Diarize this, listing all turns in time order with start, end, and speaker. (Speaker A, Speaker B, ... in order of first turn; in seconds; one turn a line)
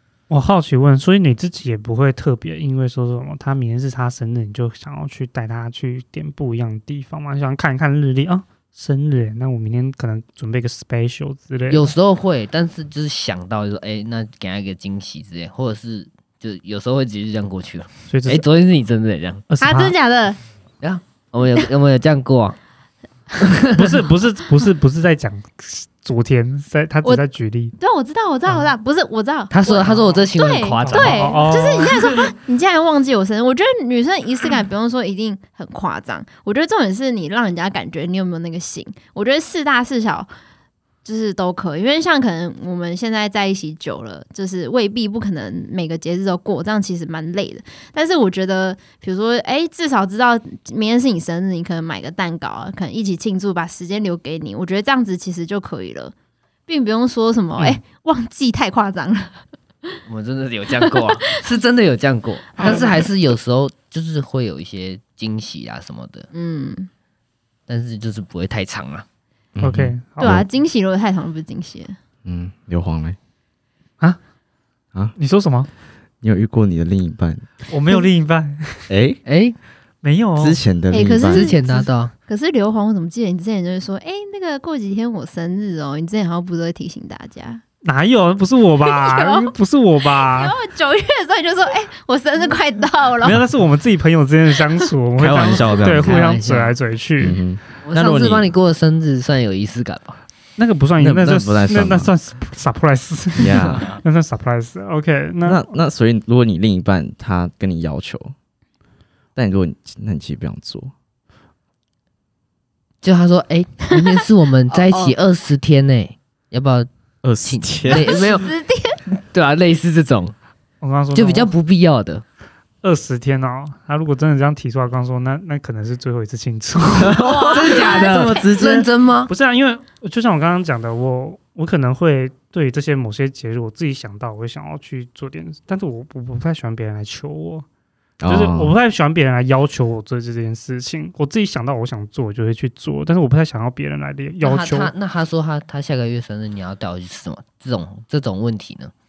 Speaker A: 0.3-11.9
Speaker B: 11.7-19.4
Speaker A: 18.1-18.4
Speaker A: 19.5-19.9
Speaker C: 19.6-20.4
Speaker B: 20.8-22.6
Speaker B: 23.4-23.9
Speaker A: 23.7-27.7
Speaker C: 27.8-40.3
Speaker B: 29.5-31.5
Speaker A: 30.9-32.0
Speaker C: 41.0-56.1
Speaker C: 56.7-60.0
Speaker B: 60.1-66.3
Speaker C: 62.6-63.1
Speaker C: 66.3-66.9
Speaker B: 67.7-69.0
Speaker D: 69.6-70.5
Speaker A: 69.6-70.4
Speaker C: 70.2-72.0
Speaker D: 72.2-73.2
Speaker A: 75.2-75.7
Speaker D: 76.2-77.5
Speaker A: 77.7-78.9
Speaker D: 78.9-79.2
Speaker B: 79.3-79.6
Speaker A: 80.0-80.6
Speaker D: 80.4-81.5
Speaker C: 80.9-87.6
Speaker B: 81.2-82.1
Speaker A: 87.8-90.5
Speaker C: 88.9-89.5
Speaker C: 90.0-93.4
Speaker A: 93.2-97.4
Speaker D: 95.2-96.2
Speaker B: 95.7-96.8
Speaker D: 97.2-98.5
Speaker B: 97.8-100.2
Speaker A: 100.6-105.7
Speaker D: 101.0-102.1
Speaker D: 103.4-103.9
Speaker D: 105.5-108.3
Speaker D: 109.4-110.9
Speaker B: 113.0-116.9
Speaker C: 114.8-115.1
Speaker D: 117.2-118.2
Speaker B: 117.4-118.5
Speaker C: 117.9-119.0
Speaker B: 119.1-120.3
Speaker A: 120.8-121.5
Speaker B: 121.2-122.2
Speaker A: 122.8-127.2
Speaker D: 127.0-127.5
Speaker C: 127.2-128.5
Speaker B: 127.2-129.3
Speaker D: 128.1-128.7
Speaker A: 128.4-128.7
Speaker A: 129.3-137.7
Speaker D: 138.2-138.7
Speaker A: 138.3-144.9
Speaker B: 144.4-148.9